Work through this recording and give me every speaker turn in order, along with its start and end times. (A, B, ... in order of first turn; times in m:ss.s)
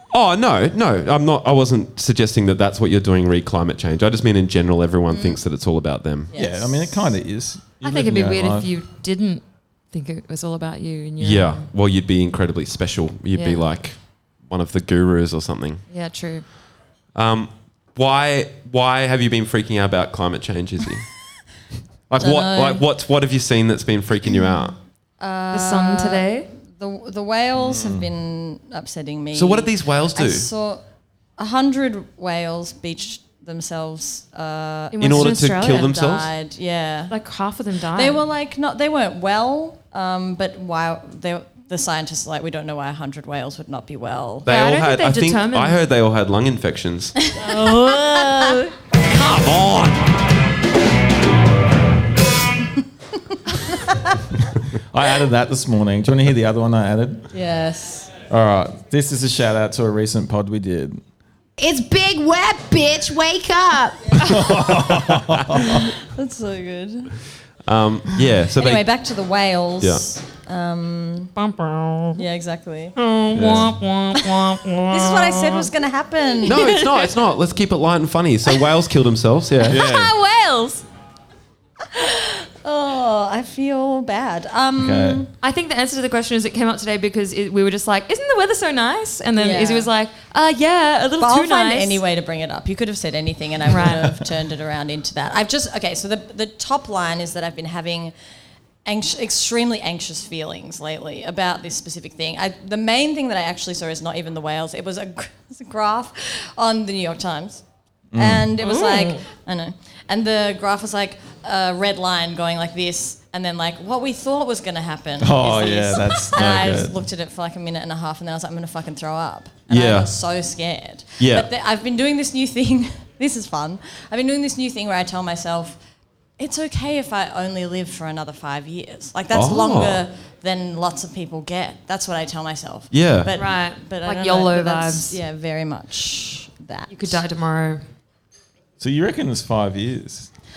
0:00.1-0:06.3 A
0:05.1-0:05.4 B
0:06.3-0:07.0 B
0:06.3-0:08.7 C
0:07.8-0:11.6 D
0:11.2-0:15.8 A
0:13.3-0:13.7 D
0:15.9-0:16.5 D
0:17.1-0:21.0 A
0:22.1-0:24.8 A
0:22.2-0:22.8 B
0:25.2-0:30.8 B
0:25.5-0:26.5 D
0:27.6-0:28.1 C
0:29.3-0:30.5 A
0:31.4-0:37.2 B
0:34.9-0:35.9 D
0:35.0-0:36.3 A
0:37.1-0:38.2 D
0:37.9-0:44.5 B
0:44.4-0:45.8 D
0:44.4-0:47.1 A
0:47.2-0:48.7 B
0:47.4-0:48.7 D
0:49.1-0:50.2 A
0:54.6-0:57.3 C
0:57.3-0:58.1 B
0:58.3-1:01.0 C
1:01.6-1:04.2 E
1:04.2-1:05.9 C
1:04.5-1:05.6 A
1:05.6-1:07.2 B
1:07.7-1:08.8 A
1:08.6-1:11.3 B
1:09.8-1:10.0 A
1:11.4-1:12.2 D
1:12.2-1:12.9 B
1:13.0-1:15.7 D
1:13.3-1:13.7 C
1:13.4-1:13.7 A
1:14.9-1:16.8 B
1:16.3-1:17.1 D
1:16.4-1:19.8 A
1:19.6-1:20.8 D
1:19.7-1:20.1 C
1:21.9-1:25.3 B
1:24.8-1:25.2 C
1:25.4-1:32.0 D
1:29.4-1:29.9 B
1:31.2-1:38.1 B
1:33.6-1:34.1 D
1:38.8-1:47.6 B
1:48.1-1:48.5 C
1:48.1-2:05.8 B
1:48.6-1:49.2 D
1:55.2-1:57.0 C
1:59.7-2:00.1 A
2:01.2-2:01.5 A
2:06.4-2:17.2 B
2:09.3-2:10.0 A
2:12.9-2:13.3 A
2:13.4-2:15.2 D
2:16.9-2:17.8 D
2:18.8-2:20.3 C